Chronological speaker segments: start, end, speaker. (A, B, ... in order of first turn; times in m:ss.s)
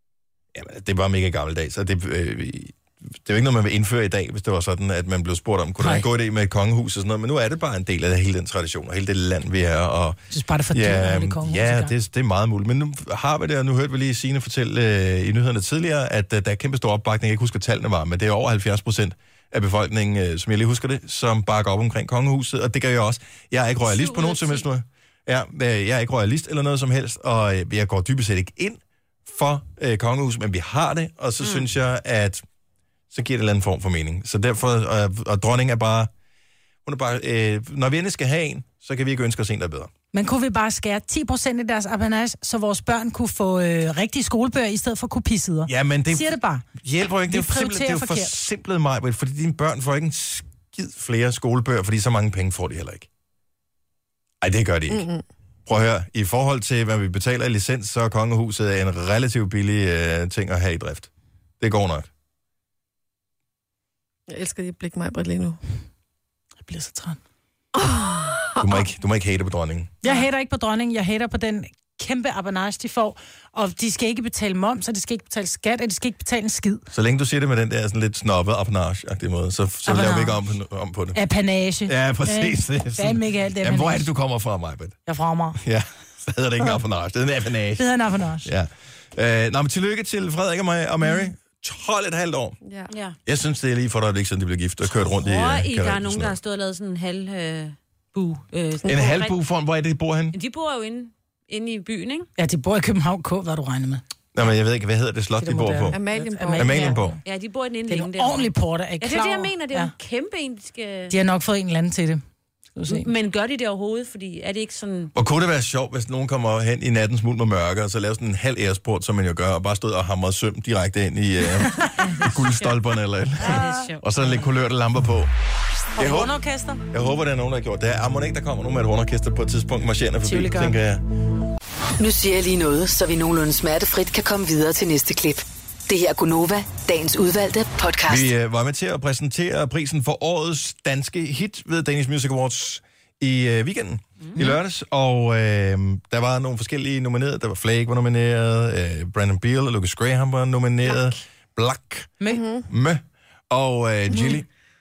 0:00.5-0:10.2 A
0:05.8-0:06.0 B
0:10.3-0:11.9 B
0:10.7-0:32.4 A
0:23.8-0:24.6 C
0:33.1-0:36.1 A
0:36.8-0:39.9 A
0:40.1-0:46.7 B
0:45.7-0:53.1 A
0:47.3-0:48.4 B
0:54.4-0:55.0 A
0:54.9-0:55.2 D
0:55.7-1:02.1 A
1:04.3-1:05.6 D
1:06.6-1:07.2 B
1:07.8-1:08.7 D
1:08.6-1:10.0 A
1:10.0-1:16.8 B
1:16.9-1:21.2 A
1:19.9-1:20.4 B
1:21.1-1:24.1 B
1:21.9-1:25.0 A
1:25.0-1:25.6 B
1:25.6-1:32.6 A
1:27.8-1:28.5 B
1:32.6-1:32.9 D
1:32.9-1:33.2 C
1:33.3-1:36.4 A
1:35.2-1:39.4 C
1:38.8-1:40.3 A
1:40.3-1:42.3 C
1:42.4-1:44.0 B
1:44.3-1:46.0 A
1:45.4-1:47.1 B
1:45.9-1:47.0 D
1:46.6-1:47.2 A
1:47.2-1:51.1 C
1:47.9-1:49.9 B
1:51.1-1:52.2 B
1:52.7-1:53.1 B
1:52.9-1:55.1 C
1:55.1-2:05.3 A
2:01.7-2:01.9 B
2:02.0-2:02.8 C
2:03.4-2:04.5 C
2:03.4-2:03.9 B
2:06.0-2:06.4 A
2:06.0-2:06.8 B
2:06.9-2:11.0 A
2:10.2-2:10.8 B
2:12.0-2:18.3 E
2:18.0-2:34.5 A
2:32.3-2:32.7 D